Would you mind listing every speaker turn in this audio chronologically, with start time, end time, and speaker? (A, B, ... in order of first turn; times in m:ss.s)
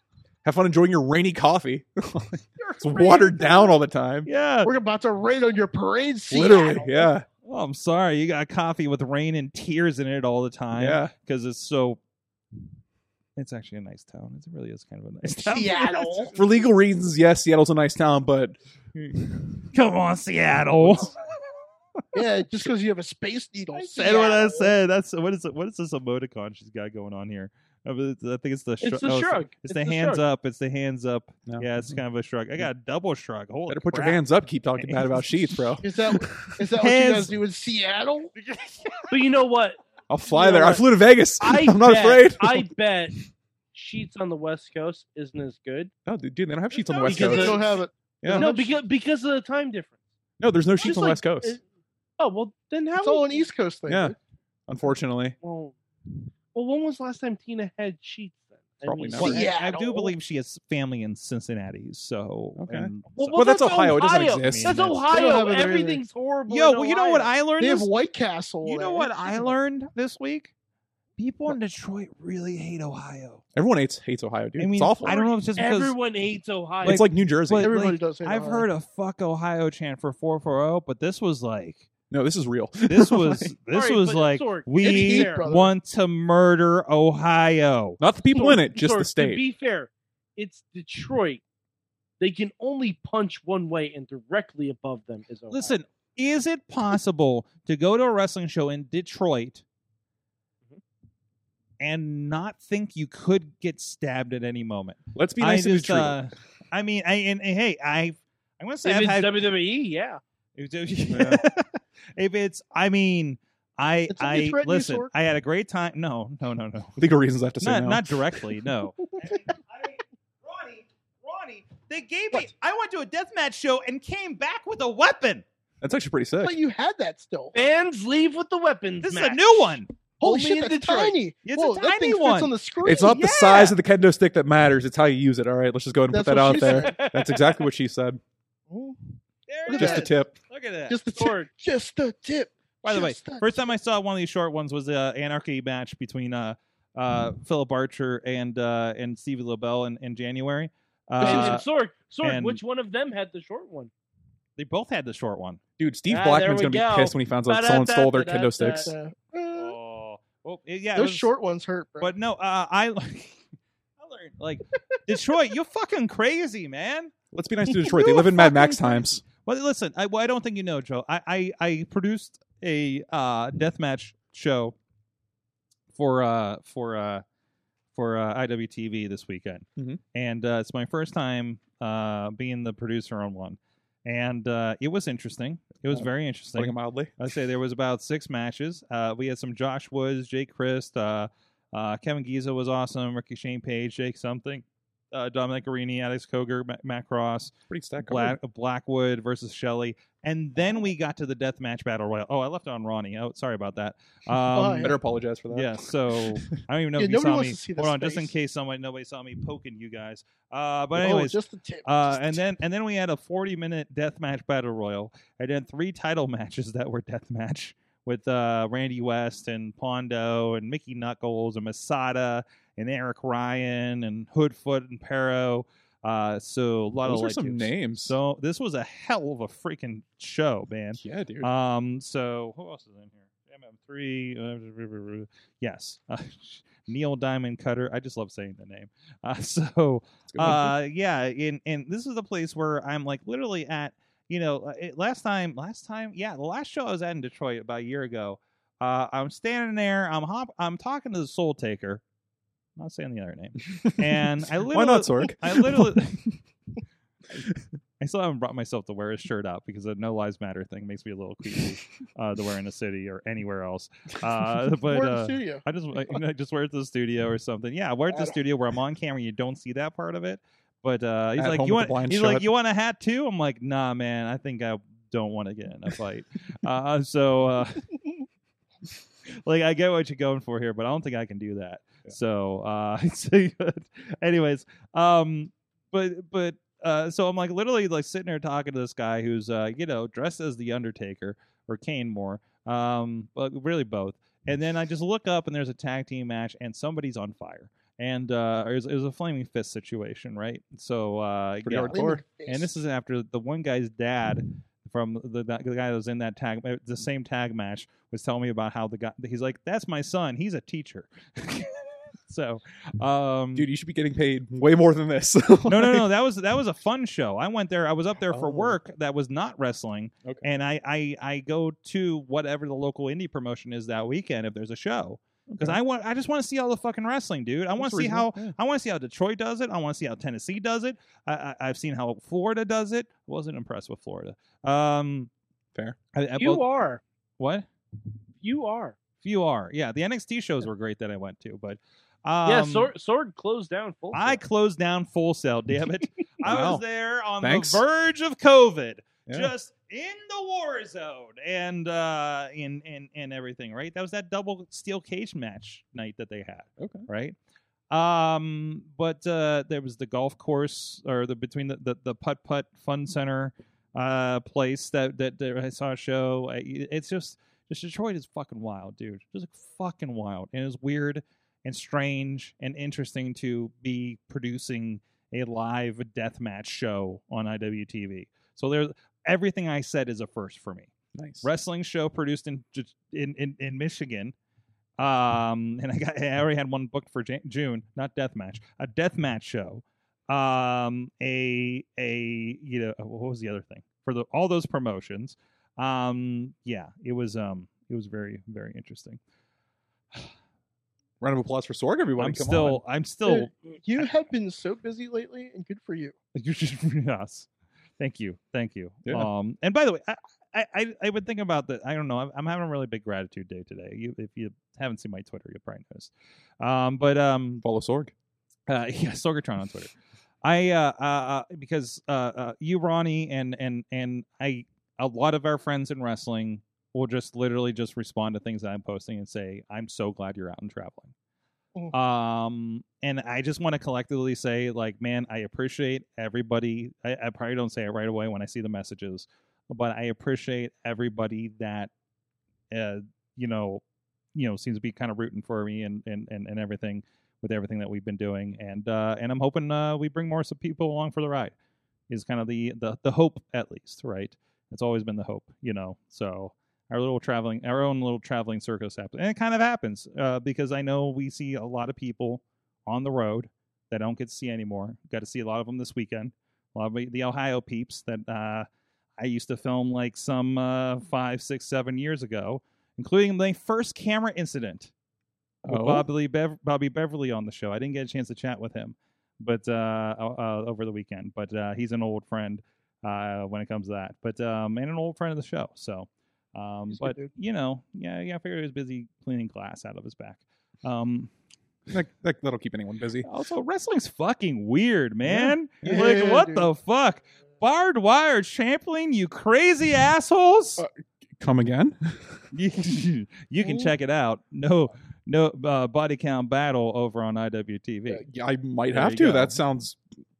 0:00.4-0:04.3 A
0:03.0-0:03.7 B
0:04.2-0:04.7 C
0:04.6-0:07.1 B
0:06.3-0:07.3 A
0:07.4-0:12.0 C
0:10.7-0:11.1 A
0:13.4-0:16.5 C
0:15.3-0:16.3 B
0:16.3-0:19.7 A
0:19.7-0:21.2 C
0:22.1-0:24.7 B
0:23.7-0:34.2 C
0:28.8-0:30.2 D
0:31.4-0:31.9 A
0:33.7-0:36.6 A
0:34.8-0:35.7 C
0:35.8-0:38.3 B
0:36.7-0:37.4 C
0:38.4-0:39.2 C
0:39.1-0:39.8 D
0:40.1-0:42.7 A
0:40.3-0:40.8 D
0:40.5-0:40.8 B
0:41.4-0:43.1 D
0:43.7-0:45.9 D
0:46.0-0:48.5 A
0:47.0-0:48.8 B
0:47.0-0:47.7 D
0:48.3-0:50.0 D
0:50.4-0:51.6 A
0:50.8-0:51.6 D
0:52.2-0:53.4 D
0:53.0-0:54.2 B
0:53.9-0:54.1 A
0:54.7-0:55.4 A
0:55.4-0:55.8 D
0:56.5-0:59.5 D
0:58.8-0:59.4 A
0:59.2-1:00.1 B
0:59.2-1:03.4 C
1:02.6-1:05.0 A
1:03.1-1:07.3 D
1:04.4-1:05.0 C
1:05.1-1:06.0 B
1:06.5-1:07.9 C
1:07.6-1:09.5 B
1:08.6-1:10.5 C
1:11.2-1:13.4 C
1:13.5-1:15.2 A
1:14.6-1:16.0 C
1:15.6-1:17.0 D
1:16.8-1:17.7 A
1:16.8-1:21.9 C
1:17.6-1:18.7 B
1:22.1-1:23.5 A
1:22.9-1:28.0 C
1:23.7-1:25.5 D
1:24.8-1:25.7 B
1:28.0-1:29.4 A
1:28.3-1:31.4 D
1:32.2-1:35.7 D
1:35.5-1:39.6 C
1:41.8-1:49.5 C
1:45.1-1:46.2 A
1:48.8-1:50.2 D
1:50.6-1:57.0 C
1:51.1-1:51.4 A
1:54.1-1:55.1 B
1:57.0-1:58.4 A
1:57.6-2:05.4 C
1:59.2-1:59.4 B
2:05.8-2:06.6 A
2:06.4-2:07.6 B
2:07.5-2:11.2 D
2:09.0-2:09.9 C
2:10.2-2:13.2 B
2:11.4-2:13.8 C
2:12.8-2:18.2 A
2:16.1-2:17.0 B
2:16.5-2:17.6 D
2:18.7-2:19.1 B
2:19.5-2:21.0 C
2:19.7-2:20.1 B
2:19.7-2:20.3 A
2:20.9-2:23.7 B
2:21.1-2:21.5 D
2:22.8-2:31.6 C
2:31.2-2:33.9 D
2:31.2-2:31.6 B
2:32.2-2:32.6 C
2:34.6-2:35.6 C
2:35.8-2:38.9 A
2:36.1-2:38.9 D
2:38.8-2:39.8 B
2:39.5-2:41.3 C
2:40.9-2:42.1 B
2:42.0-2:43.4 C
2:44.0-2:47.1 C
2:47.3-2:49.2 A
2:47.8-2:49.0 B
2:49.3-2:54.8 C
2:55.9-2:57.2 C
2:57.9-3:25.0 C
3:05.9-3:07.1 A
3:17.7-3:18.4 A
3:24.5-3:25.0 B
3:24.8-3:26.6 A
3:25.5-4:12.0 C
3:27.0-3:28.3 B
3:31.0-3:32.5 B
3:47.0-3:48.2 A
3:51.0-3:51.5 A
4:00.3-4:00.8 A
4:12.8-4:16.2 C
4:13.8-4:16.4 A
4:17.3-4:17.6 A
4:18.0-4:37.9 C
4:24.8-4:25.6 B
4:31.4-4:32.4 A
4:39.3-5:13.7 C
5:01.6-5:02.2 A
5:01.9-5:02.7 B
5:13.5-5:16.1 A
5:15.6-5:35.3 C
5:18.3-5:18.8 A
5:25.5-5:25.8 A
5:27.8-5:28.6 A
5:36.1-5:36.6 C
5:36.4-5:37.0 D
5:37.4-5:37.7 C
5:38.4-5:39.0 D
5:39.2-5:42.9 C
5:42.4-5:44.4 D
5:44.1-5:57.4 C
5:46.4-5:46.8 A
5:47.4-5:47.8 A
5:49.3-5:49.5 A
5:56.8-5:57.1 A
5:57.9-6:24.3 C
6:21.1-6:21.5 A
6:25.0-6:39.2 C
6:41.2-6:42.8 A
6:42.2-6:44.1 C
6:43.2-6:46.2 B
6:46.3-6:57.6 C
6:49.0-6:49.3 A
6:57.6-6:58.1 A
6:58.7-7:11.1 C
7:11.9-7:21.9 C
7:22.7-7:23.8 C
7:24.3-7:31.5 C
7:32.1-7:48.7 C
7:49.2-7:54.9 C
7:55.6-7:56.1 A
7:55.6-8:11.3 C
8:06.9-8:07.3 B
8:11.9-8:13.3 A
8:13.2-8:20.8 C
8:15.2-8:16.2 A
8:15.8-8:16.7 B
8:20.8-8:22.4 A
8:22.5-8:28.2 C
8:23.6-8:23.9 B
8:28.1-8:30.0 A
8:28.9-8:29.6 C